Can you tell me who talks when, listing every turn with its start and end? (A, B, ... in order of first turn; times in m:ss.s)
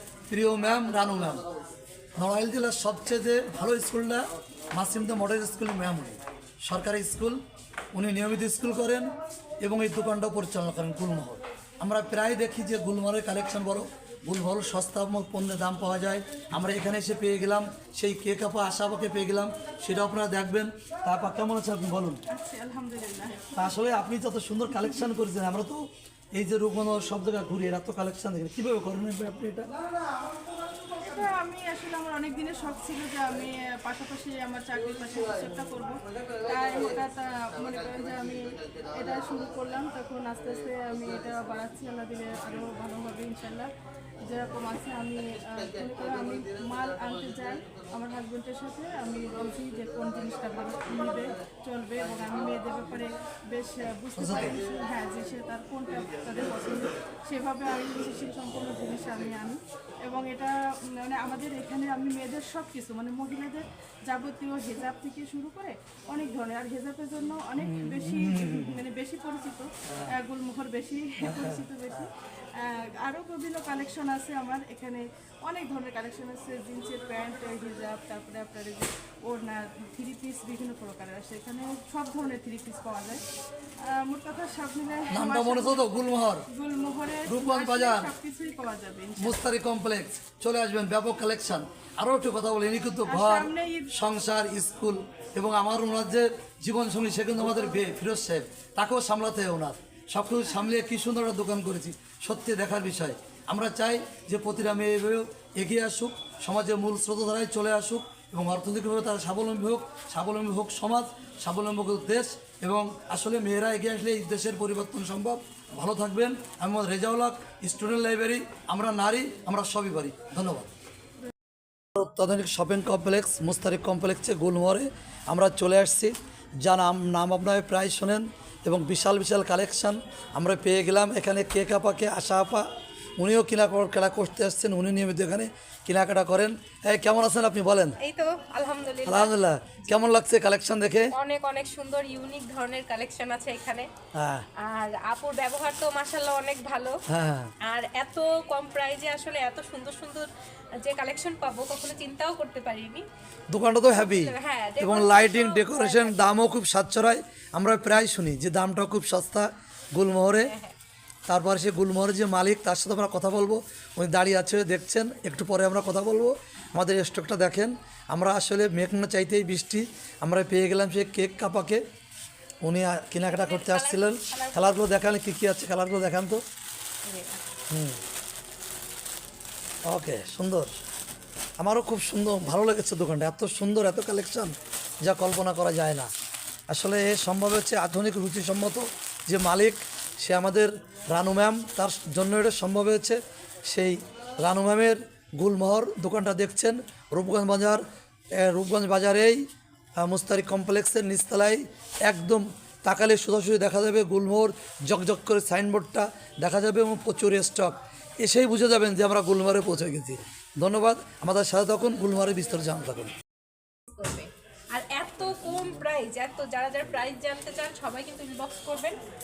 0:00.3-0:01.4 A
0:02.2-0:07.4 A
0:07.9-0:22.2 A
0:22.3-0:23.4 B
0:23.5-0:29.7 A
0:30.9-0:43.7 B
0:44.2-1:23.2 B
0:54.2-0:54.6 A
1:07.6-1:08.8 A
1:11.2-1:12.0 A
1:23.8-1:29.4 B
1:25.1-1:26.5 A
1:27.2-1:28.1 A
1:29.2-2:00.7 A
1:33.0-1:33.9 B
2:02.0-2:18.0 A
2:18.0-2:19.3 C
2:19.0-2:21.1 A
2:21.1-2:23.9 C
2:24.1-2:24.4 A
2:24.6-2:27.0 C
2:27.1-2:27.5 A
2:27.6-2:33.0 C
2:33.5-2:40.5 A
2:33.9-2:36.2 C
2:40.2-2:40.7 C
2:41.3-2:51.8 A
2:52.6-2:56.4 A
2:53.2-2:54.8 C
2:57.0-2:57.4 C
2:57.7-2:58.0 A
2:59.9-3:00.8 A
3:01.6-3:06.1 A
3:06.7-3:19.4 A
3:20.0-3:33.1 A
3:33.9-3:39.0 C